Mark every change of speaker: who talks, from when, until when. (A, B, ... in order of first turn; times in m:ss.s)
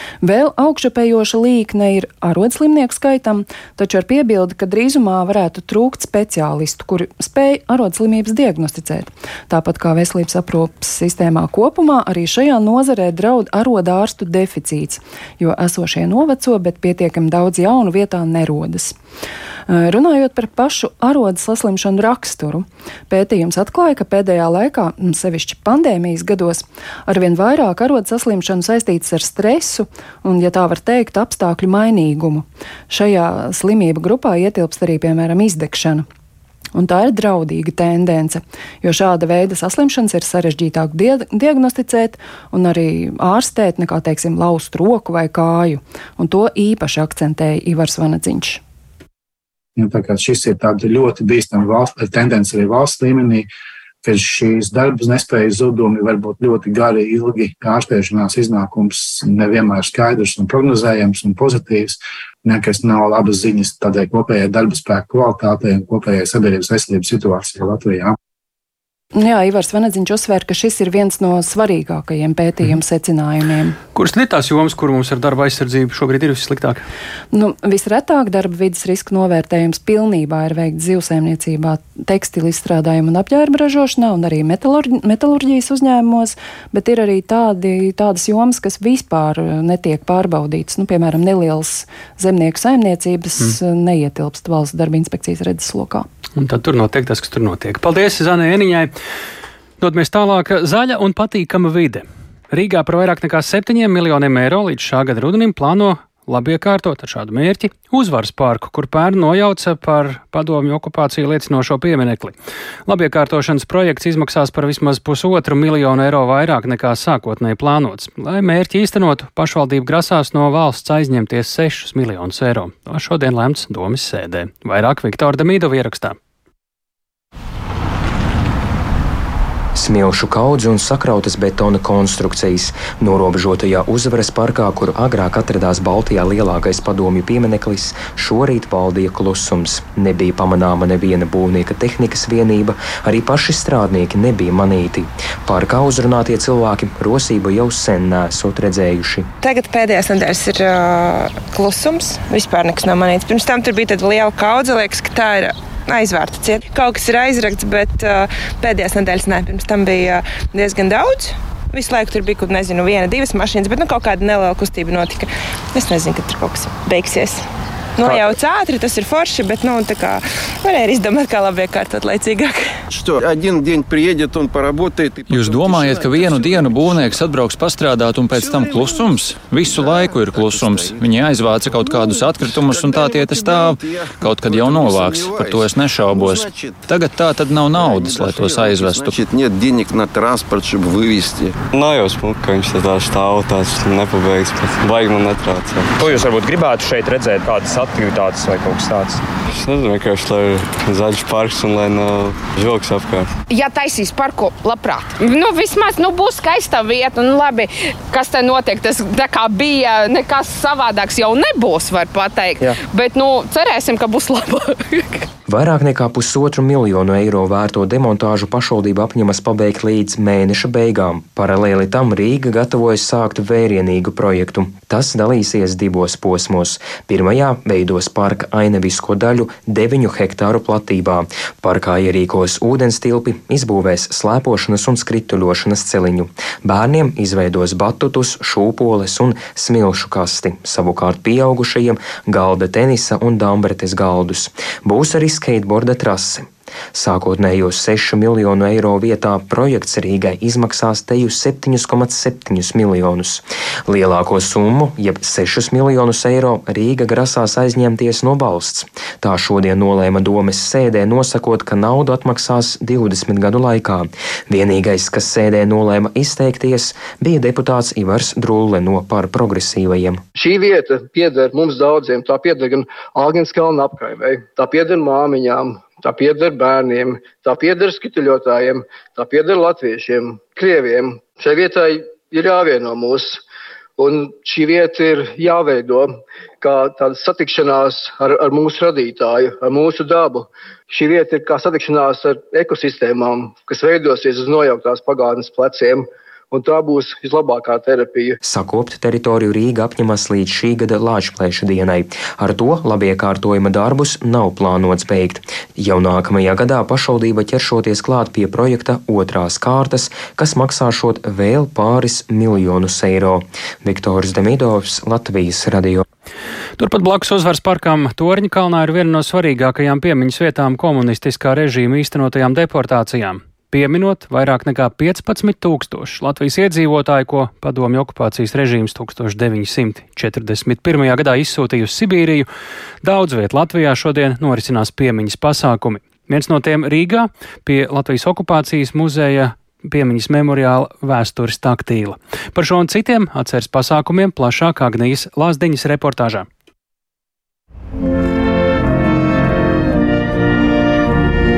0:00.2-0:19.0 A
0:19.7-0:36.1 A
0:36.7-0:48.6 A
0:49.8-0:53.5 B
0:54.0-1:08.2 B
1:09.1-1:13.8 A
1:14.0-1:16.8 C
1:17.3-1:36.1 A
1:36.4-1:38.9 C
1:39.8-1:52.3 C
1:52.9-2:06.2 C
2:09.7-2:29.3 D
2:29.4-2:47.4 E
2:48.0-2:52.7 E
2:48.0-2:48.3 F
2:52.9-2:57.2 F
2:55.3-3:09.2 G
2:58.3-3:01.0 F
3:01.6-3:06.9 F
3:07.7-3:11.6 F
3:11.7-3:15.9 H
3:16.0-3:19.2 F
3:19.5-3:23.3 H
3:23.5-3:35.2 I
3:35.5-4:30.2 D
4:30.4-4:43.4 J
4:44.0-4:58.4 J
4:58.4-5:16.0 D
5:16.8-5:32.5 C
5:33.0-5:46.5 C